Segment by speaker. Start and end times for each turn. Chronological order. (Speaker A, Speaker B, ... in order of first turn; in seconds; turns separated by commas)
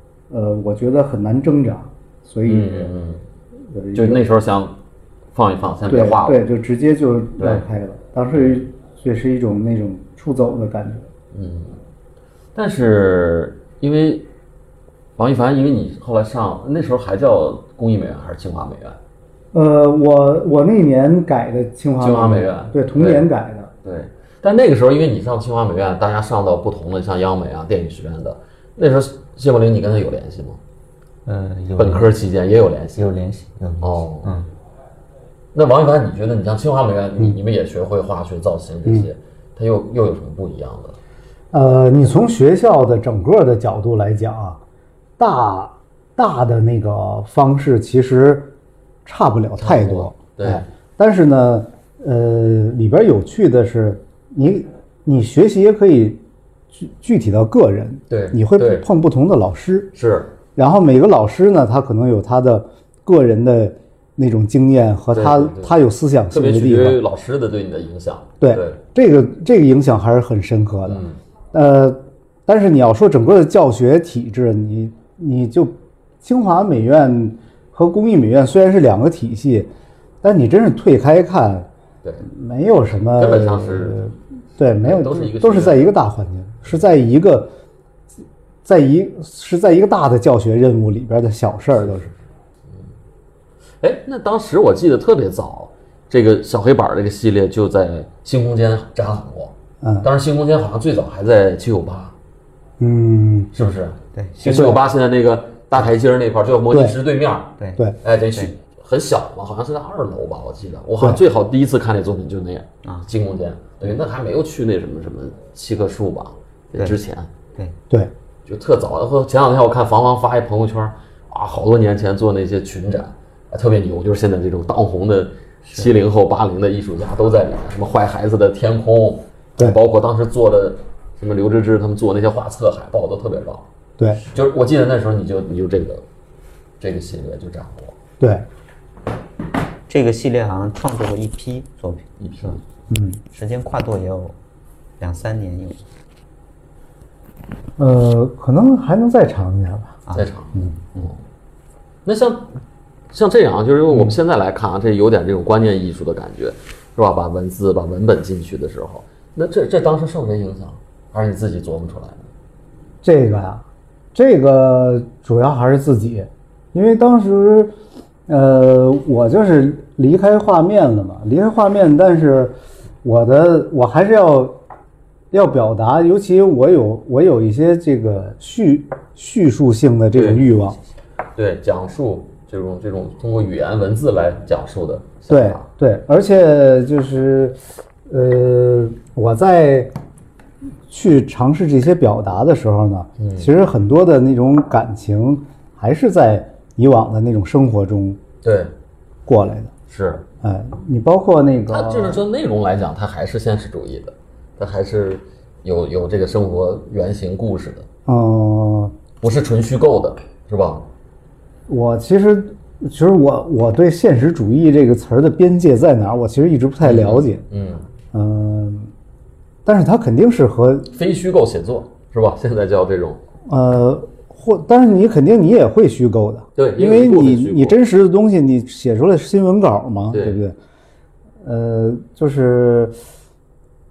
Speaker A: 0.3-2.9, Speaker B: 2.5-3.2, Speaker A: 3.7-4.2, Speaker B: 4.0-4.8, Speaker B: 5.3-6.4, Speaker A: 5.9-11.1, Speaker B: 7.4-7.7, Speaker B: 8.3-8.6, Speaker B: 11.3-11.8, Speaker B: 12.6-14.3, Speaker B: 15.2-19.0, Speaker A: 19.5-23.7, Speaker B: 22.0-23.3, Speaker B: 23.8-30.6, Speaker C: 31.2-32.1, Speaker B: 31.8-33.0, Speaker C: 33.0-34.5, Speaker B: 33.8-34.3, Speaker B: 35.5-41.0, Speaker A: 41.5-44.6, Speaker A: 45.2-48.5, Speaker A: 49.0-59.9, Speaker B: 49.6-50.7, Speaker B: 58.1-58.9, Speaker B: 60.0-60.3, Speaker A: 60.6-67.0, Speaker B: 65.1-65.8, Speaker B: 66.3-68.8, Speaker A: 68.4-79.7, Speaker B: 70.9-71.2, Speaker A: 80.2-81.7, Speaker A: 82.2-87.5, Speaker B: 83.2-84.1, Speaker B: 84.8-85.9, Speaker A: 88.7-92.1, Speaker B: 91.8-92.2, Speaker B: 93.8-102.2, Speaker A: 99.8-100.1, Speaker A: 102.8-103.5, Speaker B: 103.5-117.3, Speaker A: 104.5-104.8, Speaker A: 106.7-107.0, Speaker B: 118.5-133.7, Speaker B: 134.3-136.0, Speaker B: 136.8-138.0, Speaker A: 138.2-138.4, Speaker C: 139.9-142.6, Speaker B: 142.2-142.6, Speaker A: 142.9-143.2, Speaker C: 143.3-144.4, Speaker C: 145.0-145.8, Speaker A: 147.8-150.0, Speaker B: 150.2-151.2, Speaker C: 150.8-151.1, Speaker B: 152.1-152.5, Speaker B: 153.1-162.3, Speaker A: 163.0-167.7, Speaker A: 168.3-174.6, Speaker A: 175.3-180.8, Speaker B: 180.1-180.5, Speaker B: 181.4-185.7, Speaker A: 185.3-189.9, Speaker A: 190.9-198.2, Speaker B: 193.2-193.5, Speaker B: 198.4-198.7, Speaker A: 199.3-199.7, Speaker B: 199.9-200.2, Speaker A: 200.4-202.2, Speaker B: 201.7-207.9, Speaker A: 208.1-209.0, Speaker B: 209.2-210.9, Speaker A: 211.7-217.4, Speaker B: 216.8-217.9, Speaker A: 218.1-218.9, Speaker A: 219.7-220.9, Speaker B: 220.9-223.2, Speaker A: 223.5-230.6, Speaker B: 226.6-227.8, Speaker B: 230.1-230.4, Speaker A: 231.4-233.0